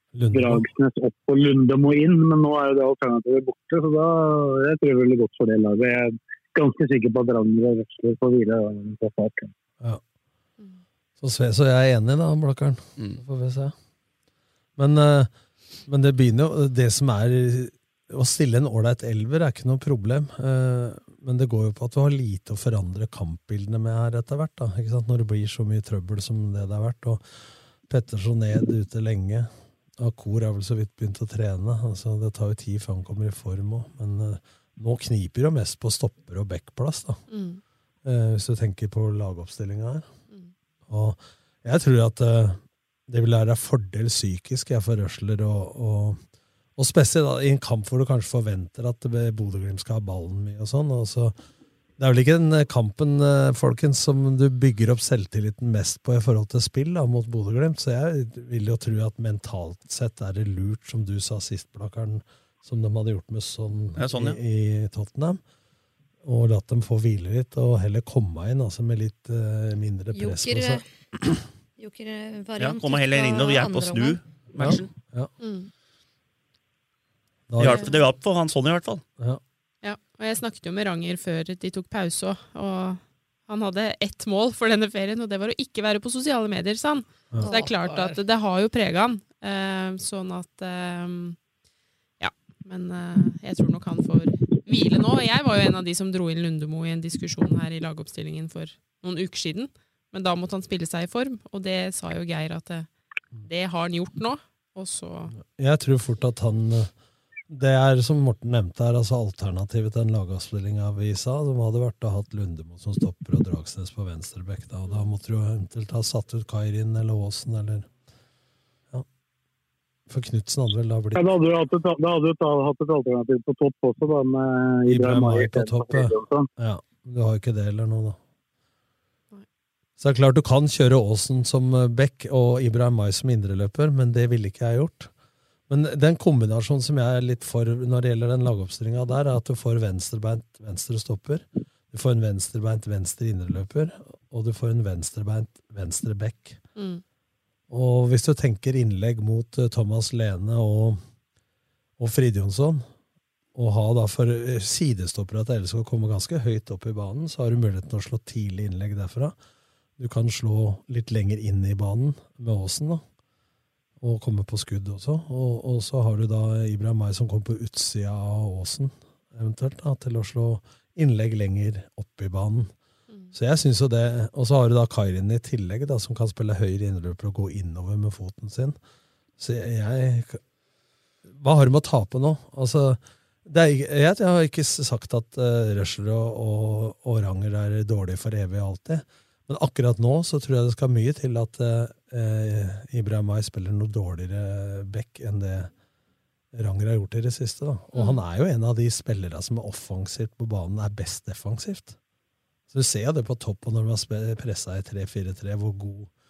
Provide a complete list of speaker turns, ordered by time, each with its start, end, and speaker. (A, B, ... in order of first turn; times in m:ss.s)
0:00.2-0:00.6 A
0:00.3-0:09.5 B
0:11.2-0:13.7 A
0:14.8-0:15.3 A
0:15.9-0:27.2 A
0:27.9-0:37.2 A
0:37.3-0:37.6 C
0:38.0-0:40.1 A
0:40.9-0:46.2 A
0:46.8-0:51.4 A
0:52.0-1:05.4 A
1:04.0-1:04.4 D
1:06.2-1:11.4 A
1:10.1-1:10.9 E
1:11.8-1:14.2 E
1:12.6-1:14.9 D
1:14.6-1:15.3 A
1:15.4-1:15.7 C
1:17.5-1:17.8 A
1:17.6-1:19.0 D
1:19.8-1:31.4 C
1:27.4-1:28.2 E
1:32.2-1:42.9 C
1:43.4-1:45.4 C
1:45.4-1:46.9 A
1:47.5-1:57.9 A
2:00.1-2:01.2 A
2:01.1-2:06.5 B
2:04.9-2:08.2 A
2:10.0-2:15.1 A
2:15.7-2:26.6 A
2:26.8-2:27.0 C
2:27.7-2:31.0 A
2:32.0-2:32.9 A
2:33.5-2:39.4 A
2:40.0-2:43.0 A
2:44.0-2:52.7 A
2:53.3-2:58.8 A
2:59.4-3:00.4 A
3:01.3-3:15.7 A
3:16.5-3:22.0 A
3:17.9-3:18.2 C
3:22.7-3:26.1 A